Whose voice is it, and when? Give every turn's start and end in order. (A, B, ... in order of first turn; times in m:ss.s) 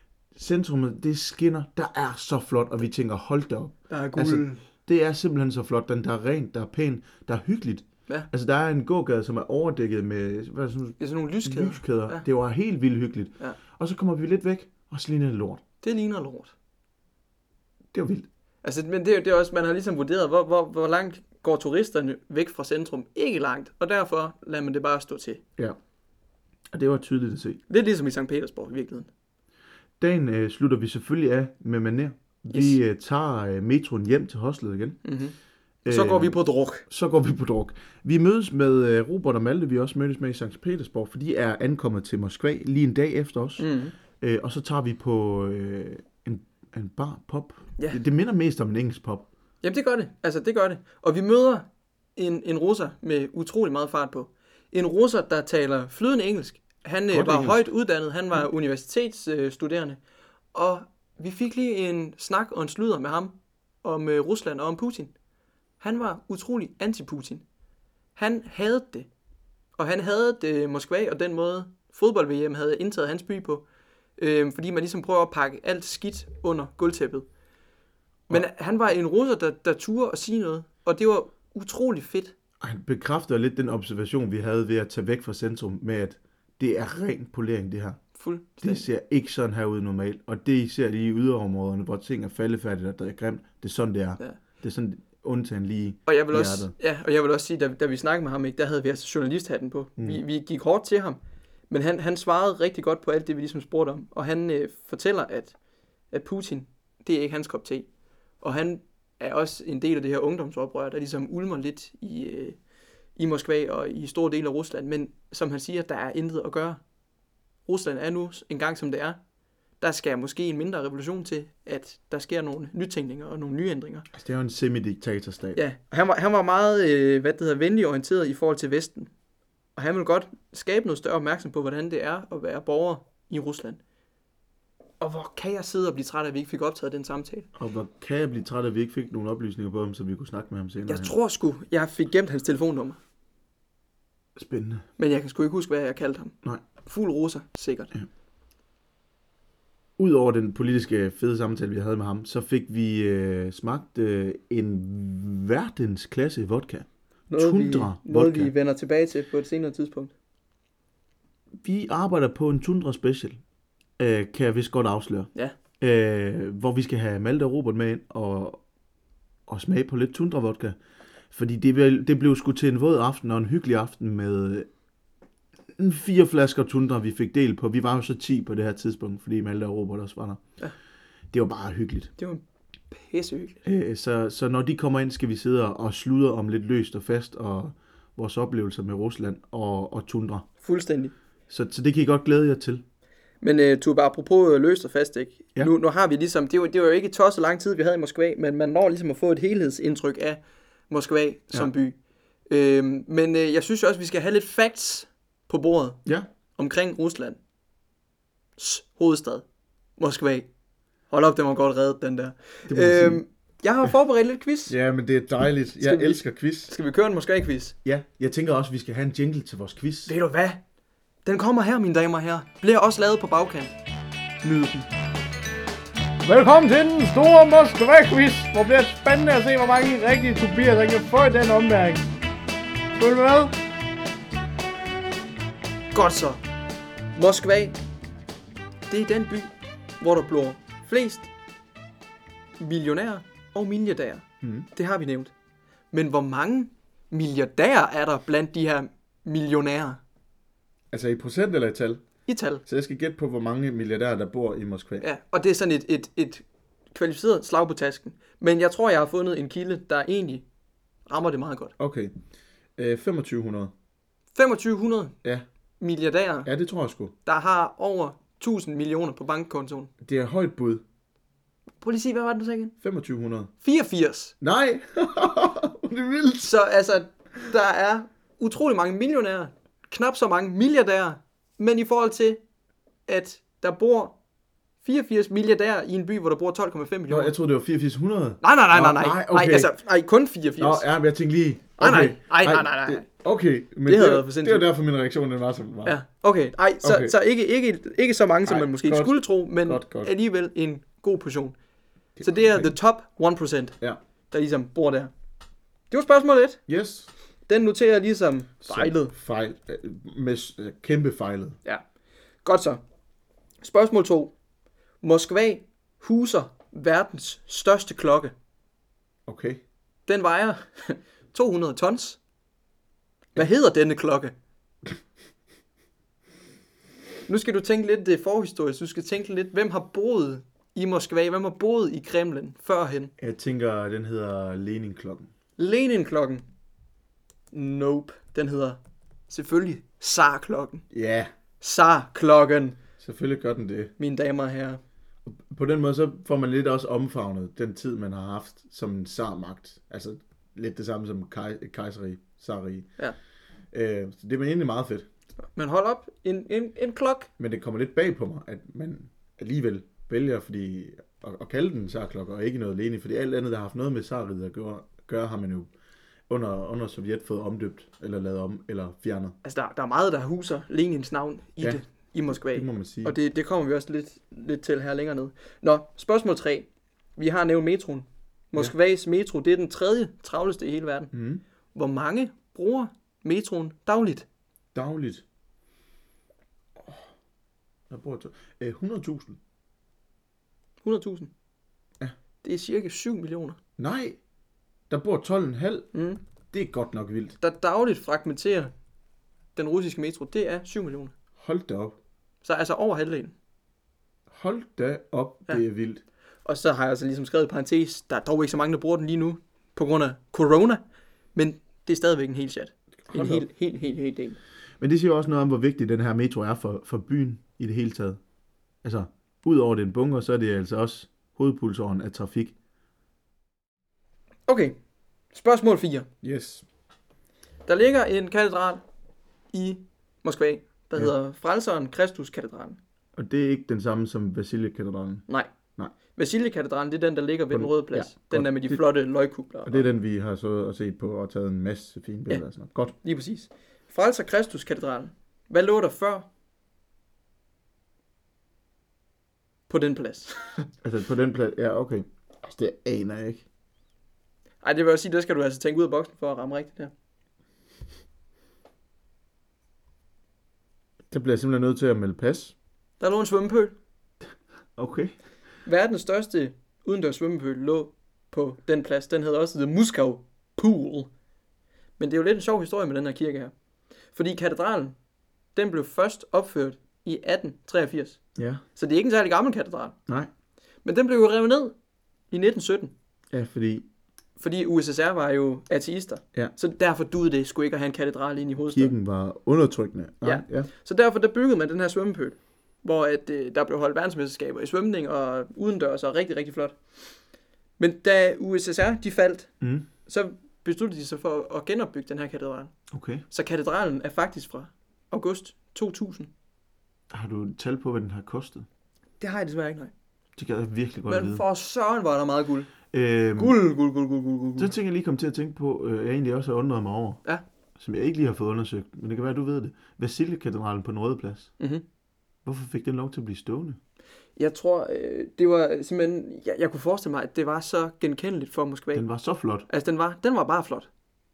0:00.4-0:15.6 A
0:03.9-0:04.6 B
0:11.0-0:12.2 B
0:15.8-0:16.5 B
0:17.9-0:18.3 A
0:18.6-0:25.4 B
0:26.7-0:27.6 A
0:27.7-0:29.1 B
0:30.0-0:35.0 A
0:32.5-0:32.8 B
0:35.0-0:36.8 B
0:35.8-0:43.7 A
0:43.6-0:44.0 B
0:44.2-0:49.3 A
0:49.6-1:00.0 B
0:57.1-0:57.7 A
1:00.5-1:05.1 B
1:05.8-1:07.4 B
1:08.2-1:09.1 B
1:09.8-1:13.6 B
1:14.2-1:17.3 B
1:18.3-1:22.3 B
1:22.6-1:28.0 A
1:28.2-1:28.8 B
1:28.6-1:36.7 A
1:36.1-1:41.2 B
1:40.0-1:40.2 A
1:41.7-1:45.6 B
1:46.1-1:47.9 B
1:48.4-1:52.6 B
1:53.2-1:56.8 B
1:57.7-1:59.2 B
1:59.8-2:04.1 B
2:04.1-2:05.6 A
2:05.6-2:09.1 B
2:09.8-2:13.8 B
2:15.0-2:17.5 B
2:17.6-2:21.1 A
2:20.9-2:23.0 B
2:24.4-2:24.8 A
2:25.0-2:27.9 B
2:30.0-2:38.5 A
2:37.3-2:40.1 B
2:41.6-2:43.4 A
2:44.0-2:48.6 A
2:49.5-2:50.8 A
2:51.3-2:54.7 A
2:55.8-3:00.4 A
3:01.3-3:02.1 A
3:02.2-3:03.6 B
3:03.6-3:10.5 A
3:10.6-3:11.1 B
3:11.5-3:12.8 A
3:13.4-3:22.0 B
3:22.5-3:26.0 B
3:26.6-3:27.4 B
3:28.6-3:29.4 B
3:30.0-3:30.5 B
3:31.1-3:34.7 B
3:32.7-3:33.2 A
3:34.7-3:36.7 A
3:35.8-3:37.8 B
3:37.8-3:40.1 A
3:40.1-3:40.6 B
3:41.2-3:43.8 B
3:44.4-3:44.9 B
3:46.2-3:52.1 C
3:53.0-3:53.6 C
3:55.9-3:56.4 B
3:57.2-3:57.8 B
3:58.9-4:01.3 B
4:02.6-4:05.3 B
4:04.4-4:04.7 A
4:05.9-4:10.0 B
4:10.9-4:12.0 A
4:12.3-4:12.6 B
4:12.7-4:15.1 A
4:15.0-4:20.4 B
4:21.1-4:21.7 B
4:21.8-4:22.1 A
4:22.8-4:23.7 A
4:24.4-4:25.2 B
4:25.8-4:26.5 B
4:26.4-4:27.1 A
4:27.2-4:29.9 B
4:30.0-4:30.8 A
4:31.8-4:32.7 B
4:32.8-4:33.5 A
4:33.6-4:34.3 B
4:34.4-4:36.5 A
4:36.4-4:42.4 B
4:43.1-4:44.2 B
4:44.8-4:47.3 B
4:47.1-4:49.7 A
4:48.4-4:50.9 B
4:50.6-4:56.0 A
4:51.8-4:53.1 B
4:53.9-4:54.7 B
4:55.8-5:01.6 B
4:56.8-4:57.2 A
4:58.5-5:00.1 A
5:02.2-5:02.7 A
5:02.2-5:03.8 B
5:04.3-5:05.1 B
5:05.9-5:06.6 B
5:06.7-5:07.1 A
5:07.5-5:09.1 B
5:08.6-5:11.6 A
5:12.4-5:12.8 B
5:13.6-5:14.3 B
5:15.0-5:18.3 B
5:19.3-5:19.6 A
5:20.1-5:22.2 B
5:23.4-5:24.3 B
5:27.3-5:33.1 B
5:33.2-5:35.3 A
5:35.6-5:36.4 B
5:37.5-5:40.8 B
5:40.9-5:41.3 A
5:41.6-5:42.8 B
5:43.0-5:43.9 A
5:44.0-5:44.8 B
5:45.3-5:52.9 A
5:53.7-5:55.1 A
5:55.6-5:57.3 B
5:57.4-6:05.7 A
6:06.3-6:09.4 A
6:09.4-6:21.1 B
6:11.6-6:13.2 A
6:21.1-6:21.4 A
6:21.7-6:24.3 B
6:24.7-6:25.2 A
6:26.8-6:27.1 A
6:27.9-6:29.4 A
6:30.8-6:31.3 B
6:32.4-6:33.6 B
6:33.8-6:34.2 A
6:34.9-6:35.9 A
6:35.9-6:36.2 B
6:36.5-6:37.4 A
6:37.4-6:38.7 B
6:39.6-6:41.1 B
6:41.4-6:42.0 A
6:42.4-6:43.3 B
6:44.3-6:46.0 A
6:46.4-6:50.8 B
6:51.4-6:54.4 B
6:53.0-6:53.5 A
6:54.8-6:58.2 A
6:58.8-7:02.6 A
7:04.5-7:04.8 B
7:05.3-7:06.1 B
7:06.2-7:06.6 A
7:07.7-7:08.8 B
7:09.5-7:12.8 B
7:13.2-7:15.3 A
7:16.2-7:19.9 B
7:17.5-7:18.8 A
7:19.7-7:22.9 A
7:23.0-7:26.3 B
7:29.7-7:30.7 B
7:30.8-7:33.4 A
7:34.6-7:36.9 B
7:41.1-7:42.6 A
7:43.0-7:43.8 B
7:44.8-7:45.2 A
7:45.6-7:51.1 B
7:52.0-7:53.5 B
7:54.1-7:55.0 B
7:55.6-7:58.2 B
7:58.4-7:58.6 A
7:58.8-8:00.0 B
8:00.8-8:01.8 B
8:02.3-8:02.9 B
8:03.3-8:03.9 A
8:04.4-8:08.9 B
8:08.7-8:10.7 A
8:10.2-8:16.8 B
8:17.8-8:19.5 B
8:19.6-8:19.9 A
8:20.1-8:22.7 B
8:22.9-8:23.2 A
8:23.3-8:26.3 B
8:27.1-8:28.7 A
8:29.2-8:29.9 B
8:30.4-8:31.4 A
8:31.1-8:32.7 B
8:32.9-8:33.6 A
8:33.4-8:34.7 B
8:34.6-8:37.2 A
8:37.8-8:41.5 A
8:41.6-8:41.8 B
8:42.4-8:43.8 A
8:44.4-8:49.0 B
8:48.9-8:49.7 A
8:49.7-8:50.9 B